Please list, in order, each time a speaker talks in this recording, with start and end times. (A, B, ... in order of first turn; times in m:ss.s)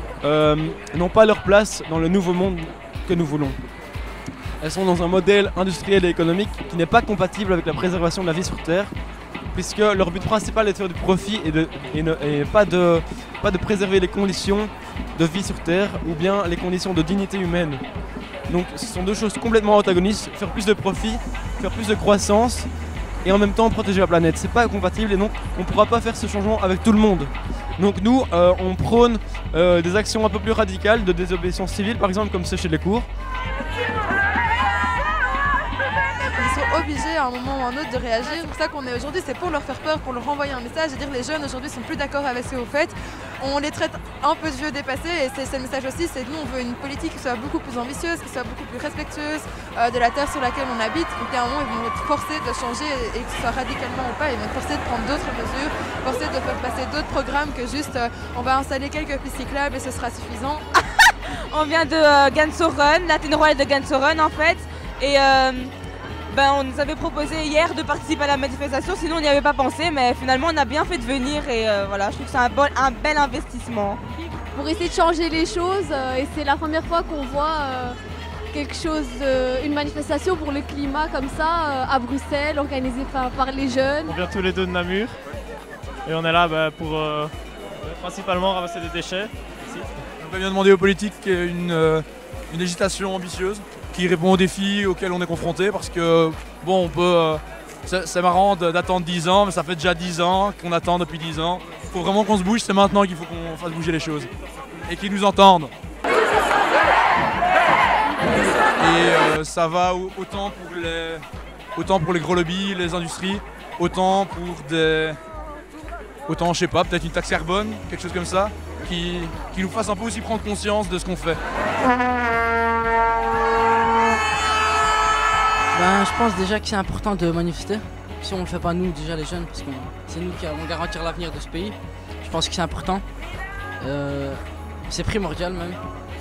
0:00.2-0:03.6 A
0:04.6-0:08.9 A
0:09.5-0:17.8 A
0:18.5-0:22.7 A
0:23.2-0:33.1 A
0:36.3-1:00.6 B
1:01.1-1:05.7 C
1:06.3-1:14.0 C
1:14.5-1:18.0 D
1:18.5-1:24.2 D
1:24.1-1:25.2 E
1:26.0-1:29.9 E
1:30.2-1:44.3 F
1:44.8-1:45.7 F
1:48.8-1:51.2 F
1:51.8-1:55.2 F
1:56.2-2:01.4 F
2:05.7-2:13.0 G
2:13.8-2:15.8 G